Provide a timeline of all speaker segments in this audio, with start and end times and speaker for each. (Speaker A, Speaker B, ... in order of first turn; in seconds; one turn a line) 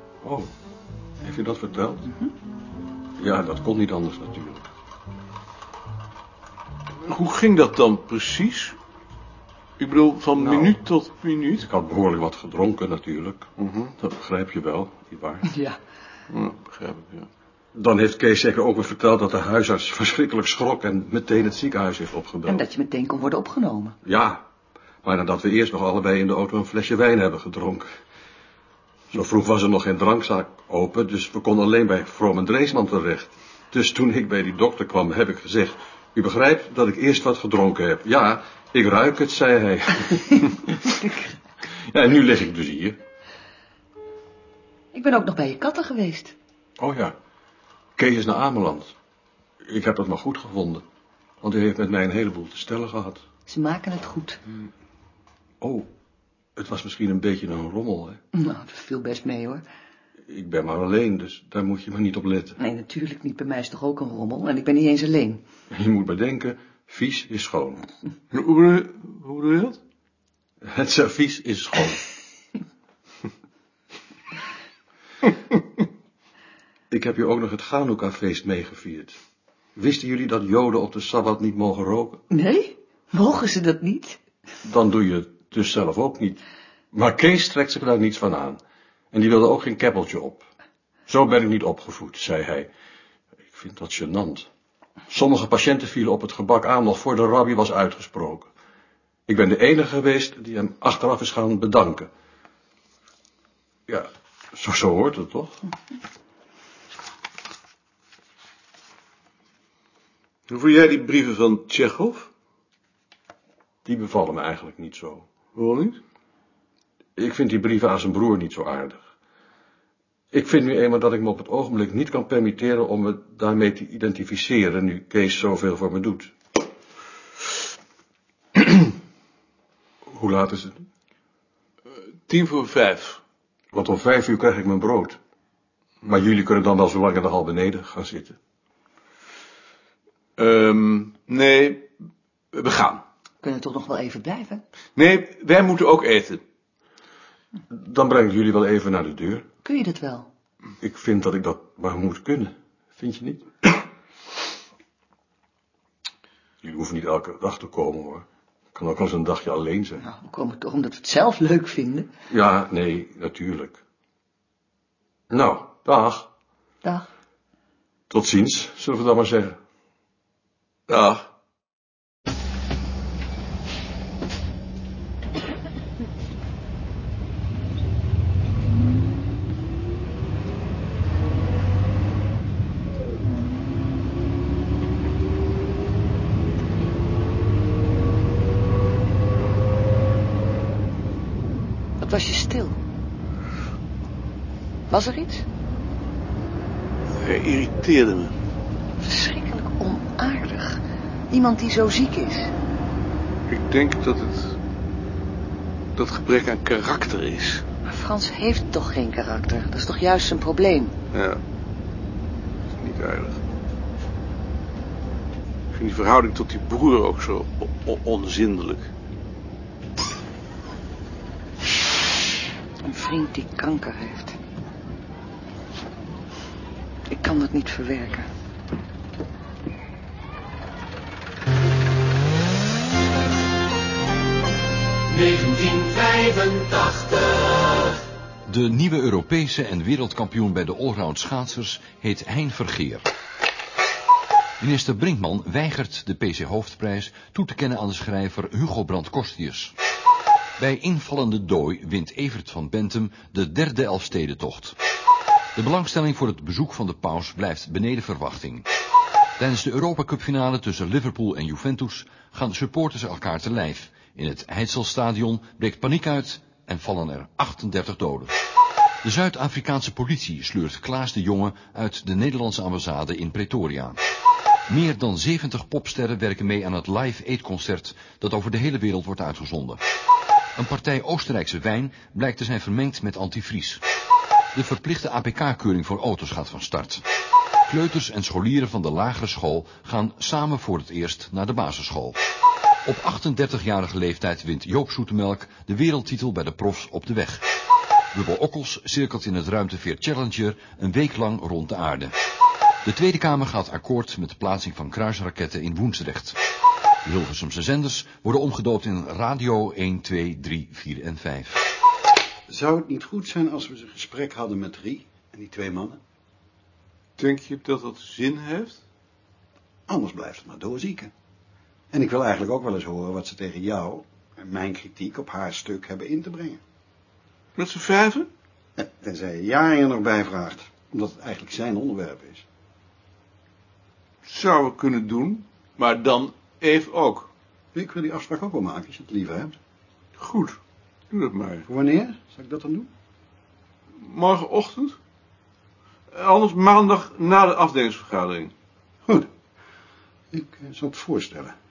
Speaker A: 0.2-0.5
Speaker A: 1.2-2.1
Speaker A: 3.2-4.7
Speaker B: 7.0-8.8
Speaker B: 9.8-11.7
Speaker A: 10.4-10.8
Speaker A: 11.6-13.5
Speaker B: 13.6-13.9
Speaker A: 14.0-15.5
Speaker C: 15.4-15.8
Speaker B: 16.3-17.3
Speaker A: 17.8-22.7
Speaker C: 22.5-24.0
Speaker A: 24.1-24.5
Speaker A: 25.0-27.9
Speaker A: 29.1-40.9
Speaker A: 41.7-43.0
Speaker C: 44.9-46.4
Speaker A: 46.8-47.1
Speaker A: 48.0-49.0
Speaker A: 49.6-50.8
Speaker A: 51.4-53.2
Speaker C: 53.5-54.4
Speaker A: 55.6-55.9
Speaker A: 56.6-58.2
Speaker C: 58.3-59.6
Speaker A: 60.3-62.6
Speaker C: 62.6-65.4
Speaker A: 65.7-67.9
Speaker B: 68.3-69.8
Speaker A: 70.6-72.1
Speaker A: 76.9-79.2
Speaker A: 79.8-82.2
Speaker C: 82.3-84.2
Speaker A: 84.7-86.4
Speaker A: 86.9-88.6
Speaker A: 89.1-90.5
Speaker A: 91.1-92.7
Speaker A: 93.5-94.5
Speaker A: 95.1-98.5
Speaker A: 99.3-102.1
Speaker A: 103.9-105.6
Speaker B: 110.5-112.3
Speaker A: 113.8-115.3
Speaker B: 115.5-116.0
Speaker A: 117.2-119.0
Speaker A: 120.3-126.3
Speaker A: 130.1-130.9
Speaker B: 132.3-133.2
Speaker A: 133.7-135.2
Speaker A: 136.0-138.4
Speaker B: 140.4-141.9
Speaker B: 142.5-143.0
Speaker C: 143.4-144.6
Speaker B: 145.0-146.4
Speaker A: 147.7-149.5
Speaker C: 149.6-150.3
Speaker A: 150.8-153.8
Speaker A: 156.6-160.0
Speaker C: 160.0-162.1
Speaker A: 162.3-163.8
Speaker A: 165.3-166.3
Speaker A: 168.1-169.6
Speaker C: 192.0-192.8
Speaker C: 194.9-195.5
Speaker B: 197.1-198.3
Speaker C: 199.0-202.5
Speaker B: 203.5-204.6
Speaker B: 206.0-207.6
Speaker C: 207.9-210.9
Speaker B: 211.1-211.4
Speaker B: 212.8-213.4
Speaker B: 215.7-218.9
Speaker C: 222.8-224.4
Speaker C: 227.1-228.3
Speaker D: 238.5-243.1
Speaker D: 244.6-249.8
Speaker D: 250.6-254.8
Speaker D: 255.6-258.7
Speaker D: 259.4-268.3
Speaker D: 269.0-274.0
Speaker D: 274.7-279.8
Speaker D: 280.6-283.8
Speaker D: 284.5-287.0
Speaker D: 287.7-292.2
Speaker D: 292.9-297.4
Speaker D: 298.1-302.1
Speaker D: 302.8-306.4
Speaker D: 307.0-311.6
Speaker E: 312.5-316.0
Speaker B: 317.2-318.8
Speaker E: 319.9-321.1
Speaker E: 321.9-326.6
Speaker B: 327.6-328.3
Speaker E: 328.8-332.4
Speaker B: 334.2-337.3
Speaker E: 337.7-339.6
Speaker B: 340.2-340.6
Speaker B: 341.1-341.6
Speaker E: 341.7-342.9
Speaker B: 344.0-345.0
Speaker B: 346.1-348.5
Speaker E: 350.3-351.6